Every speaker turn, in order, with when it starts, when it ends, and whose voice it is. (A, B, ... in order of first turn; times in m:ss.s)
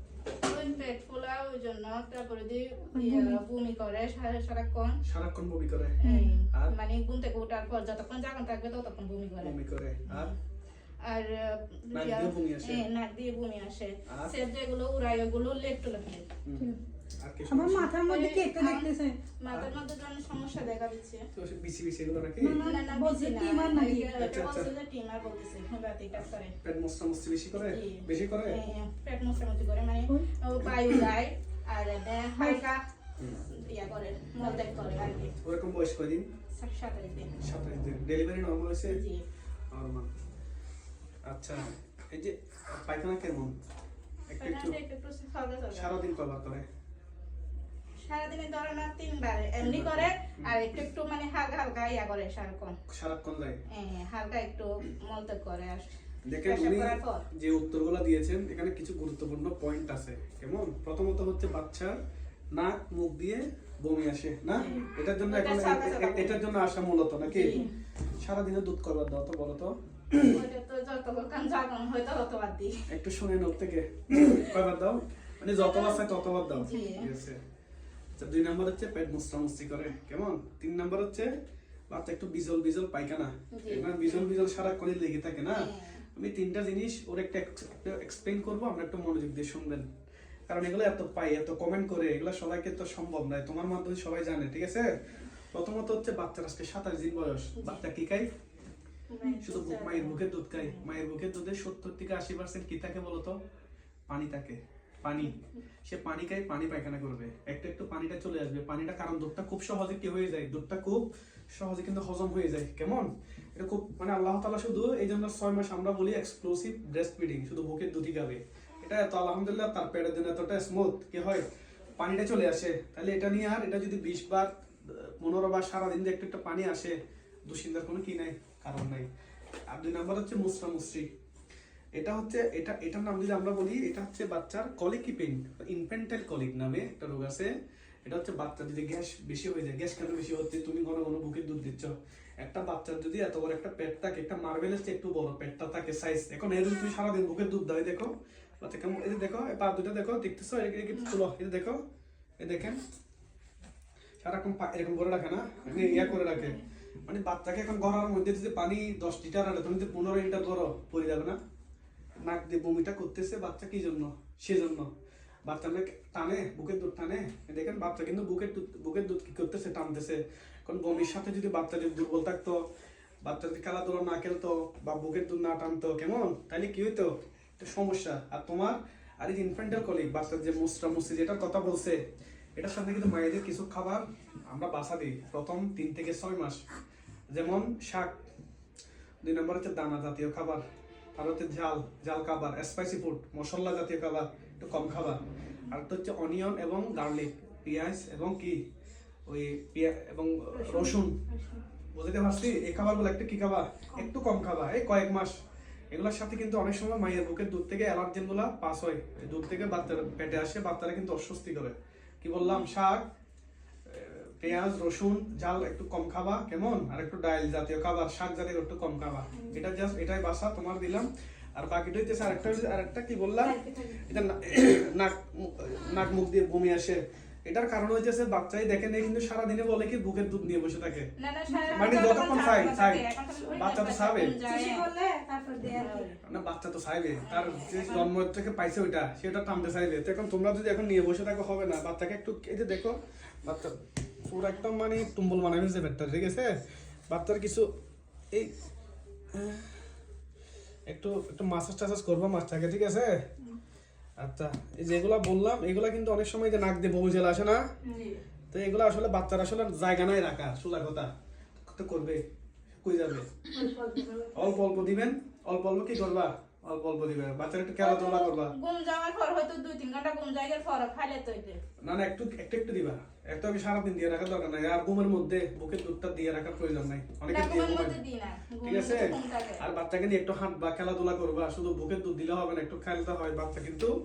0:00.4-0:05.0 A
0:02.9-0:03.4 B
0:05.0-0:06.0 C
0:06.0-0:09.6 A
0:06.0-0:06.4 B
0:09.4-0:10.3 C
0:10.1-0:10.3 A
0:11.0-0:16.3 A
0:11.9-0:12.8 C
0:14.1-0:14.4 C
0:16.4-0:17.9 C
0:17.5-0:19.2 B
0:18.0-0:21.3 A
0:21.4-0:22.6 C
0:22.4-0:24.1 B
0:22.6-0:26.5 A
0:24.2-0:24.7 C
0:26.1-0:28.6 C
0:27.7-0:32.8 A
0:32.4-0:32.6 B
0:33.4-0:35.4 A
0:35.4-0:36.3 C
0:36.6-0:37.4 A
0:37.4-0:39.0 C
0:38.9-0:39.2 A
0:39.7-0:40.1 C
0:41.3-0:43.6 C
0:44.3-0:44.8 C
0:44.3-0:46.0 A
0:45.7-0:46.7 C
0:48.0-0:52.8 A
0:49.6-0:50.6 C
0:52.9-0:53.6 C
0:53.7-0:55.9 A
0:56.3-1:02.0 C
0:56.4-0:57.2 A
1:02.5-1:07.6 C
1:04.6-1:06.4 A
1:07.2-1:07.7 A
1:08.2-1:10.4 C
1:10.2-1:12.8 A
1:12.9-1:17.4 C
1:15.6-1:17.1 A
1:16.7-1:17.1 B
1:18.2-1:21.3 C
1:21.9-1:29.9 C
1:23.5-1:24.3 A
1:25.5-1:26.0 A
1:30.5-1:34.9 C
1:35.5-1:38.3 C
1:39.1-1:40.8 A
1:39.4-1:43.4 C
1:44.1-1:45.3 C
1:45.8-2:01.4 C
2:02.0-2:09.1 C
2:09.7-2:11.1 C
2:12.0-2:17.5 C
2:18.1-2:31.8 C
2:32.4-2:32.8 C
2:34.2-2:41.4 C
2:35.7-2:36.6 A
2:42.2-2:44.9 C
2:45.5-2:52.6 C
2:53.2-3:02.0 C
3:02.6-3:06.6 C
3:07.3-3:08.2 C
3:09.2-3:10.6 C
3:11.2-3:18.6 C
3:19.3-3:21.2 C
3:20.6-3:21.6 B
3:21.9-3:25.4 C
3:25.9-3:33.1 C
3:33.9-3:51.1 C
3:43.4-3:44.0 B
3:51.2-3:54.8 A
3:51.5-3:52.3 B
3:51.7-3:54.4 C
3:54.4-3:56.1 B
3:55.7-3:56.2 A
3:56.2-4:06.6 C
3:57.2-3:58.1 A
4:07.1-4:07.7 C
4:09.3-4:09.7 C
4:10.9-4:13.2 C
4:14.2-4:17.6 C
4:18.5-4:22.2 C
4:22.8-4:23.3 C
4:23.5-4:24.5 B
4:24.3-4:28.6 C
4:27.8-4:31.6 A
4:31.8-4:38.0 C
4:37.3-4:39.6 A
4:38.6-4:43.9 C